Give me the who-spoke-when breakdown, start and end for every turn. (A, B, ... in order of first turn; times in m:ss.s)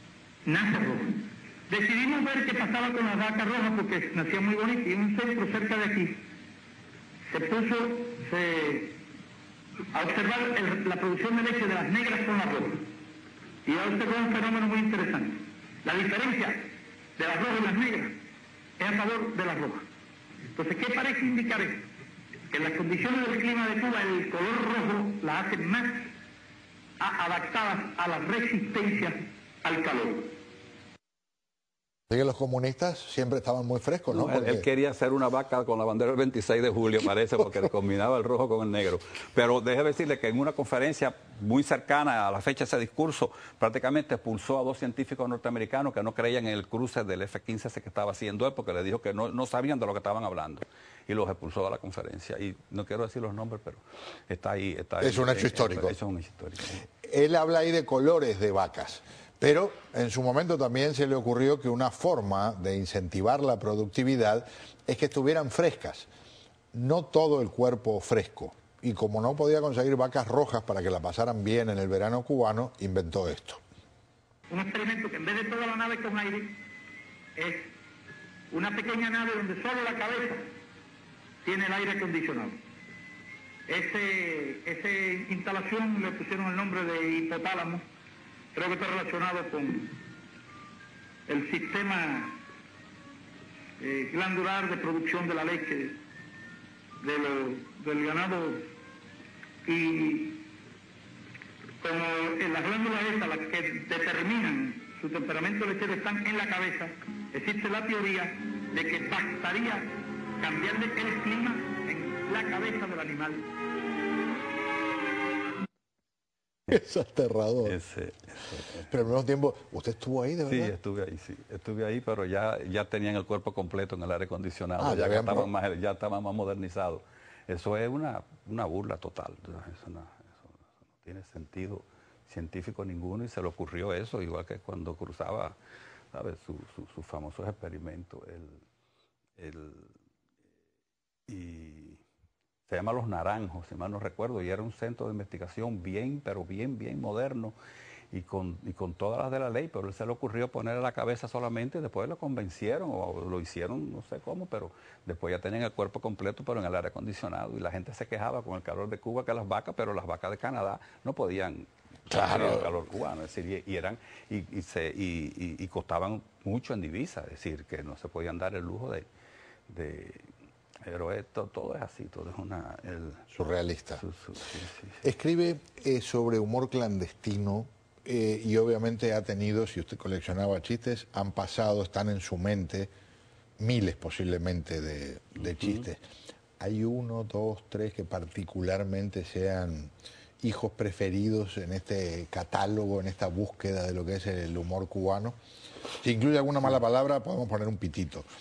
0:00.4-0:06.2 A
0:07.3-0:09.0 A
0:09.9-0:12.9 A
0:13.6-0:18.1 A
0:18.8-0:19.8 A
0:20.5-0:21.8 A
0:22.5-0:26.1 A
0:27.0-0:30.3 A
0:32.1-0:34.6 B
0:34.1-0:56.8 C
0:55.0-0:55.9 B
0:57.0-1:06.1 B
1:06.7-1:13.6 B
1:14.5-1:16.6 A
1:17.4-1:17.7 A
1:18.5-1:20.4 A
1:21.4-1:22.6 A
1:23.7-1:27.8 A
1:28.5-1:30.0 A
1:31.3-1:32.4 A
1:33.8-1:36.0 A
1:37.0-1:38.6 A
1:39.6-1:40.4 A
1:41.8-1:53.4 A
1:56.7-1:57.8 B
1:57.6-1:58.9 C
1:58.8-2:00.7 B
2:00.4-2:15.5 C
2:04.8-2:05.5 B
2:16.1-2:18.6 C
2:19.4-2:19.9 C
2:21.3-2:22.0 C
2:22.7-2:27.6 C
2:28.1-2:49.0 C
2:42.1-2:42.7 B
2:49.7-2:50.2 C
2:50.8-2:53.2 C
2:53.3-2:54.0 B
2:54.0-2:55.0 C
2:55.0-3:02.9 B
3:03.6-3:06.0 B
3:06.6-3:15.4 B
3:16.0-3:18.3 B